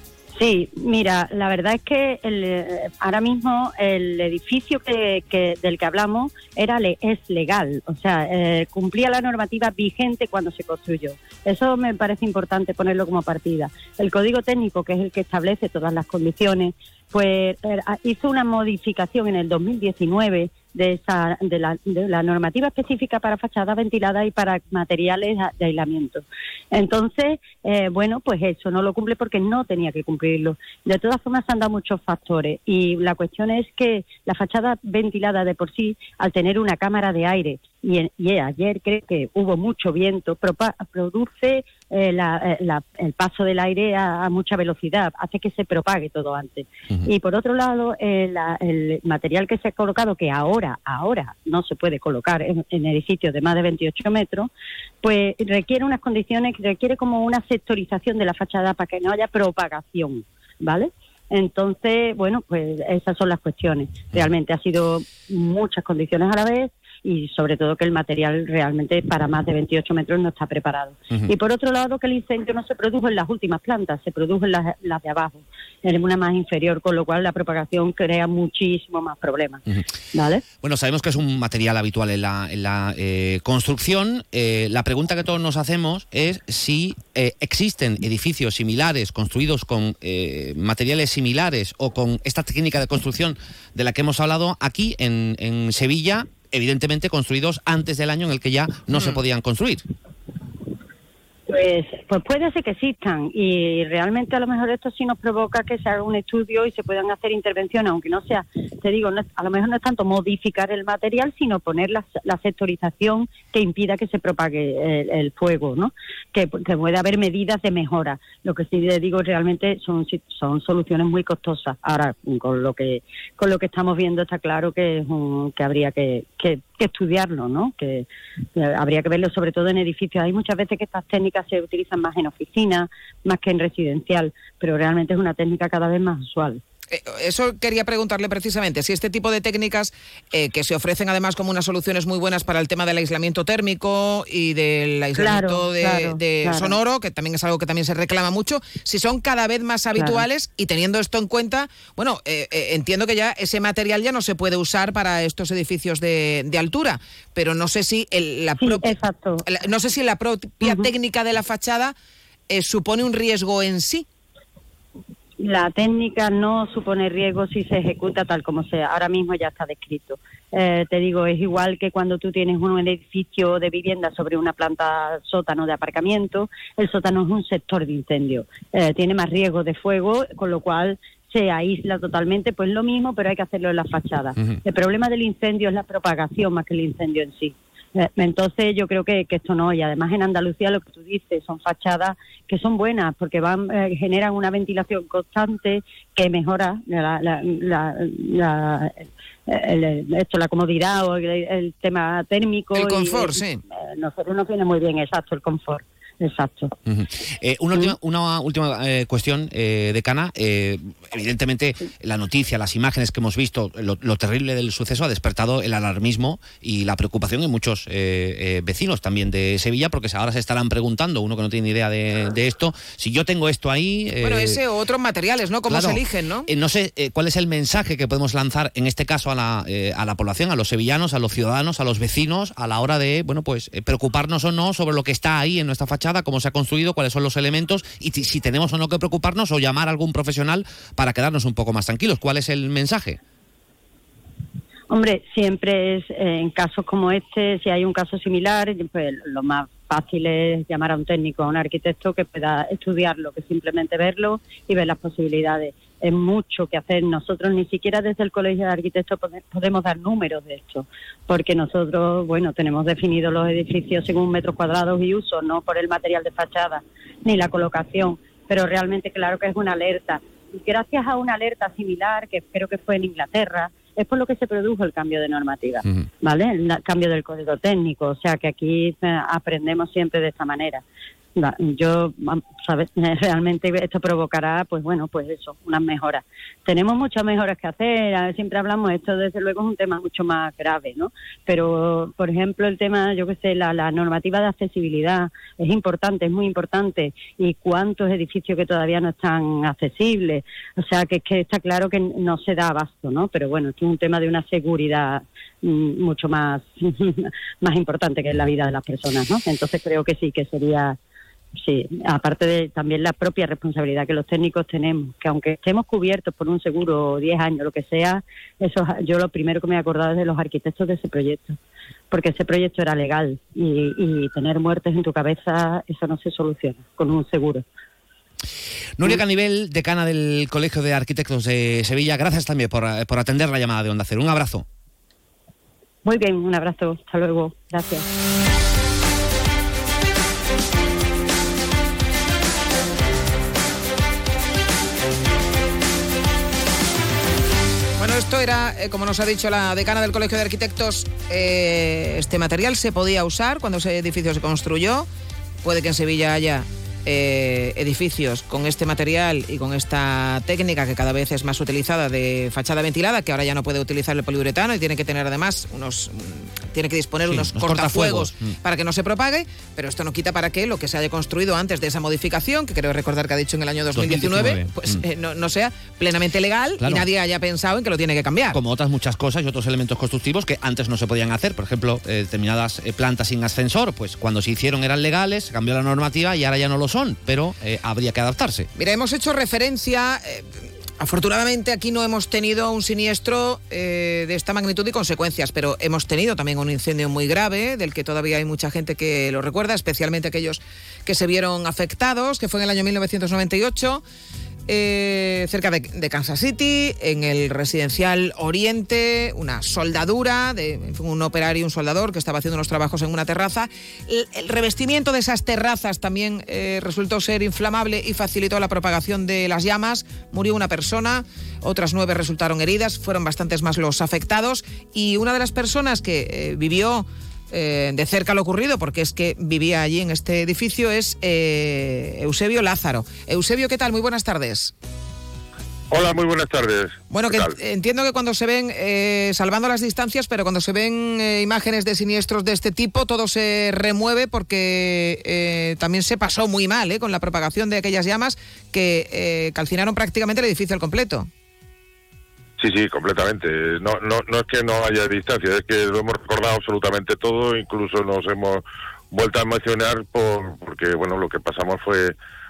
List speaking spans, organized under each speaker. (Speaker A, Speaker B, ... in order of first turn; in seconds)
Speaker A: 0.3-54.5, 55.0-79.6, 80.1-80.4, 101.5-136.6, 145.2-146.8, 149.9-150.2, 158.6-159.4, 160.6-160.9, 165.4-203.4, 203.9-206.7, 244.9-280.8, 281.4-311.0, 311.6-321.6, 322.1-327.6, 336.0-338.0
Speaker B: 80.6-99.8, 206.8-224.6, 225.7-243.2, 329.0-334.6, 367.2-368.5, 373.9-375.0, 376.8-377.1, 378.5-388.7
Speaker C: 136.9-158.9, 159.5-161.9, 162.5-164.1, 202.7-203.6, 224.2-226.5, 348.0-355.1, 355.6-378.6, 388.8-404.0, 404.7-434.7, 437.1-451.3
Speaker D: 435.9-437.6, 452.6-462.1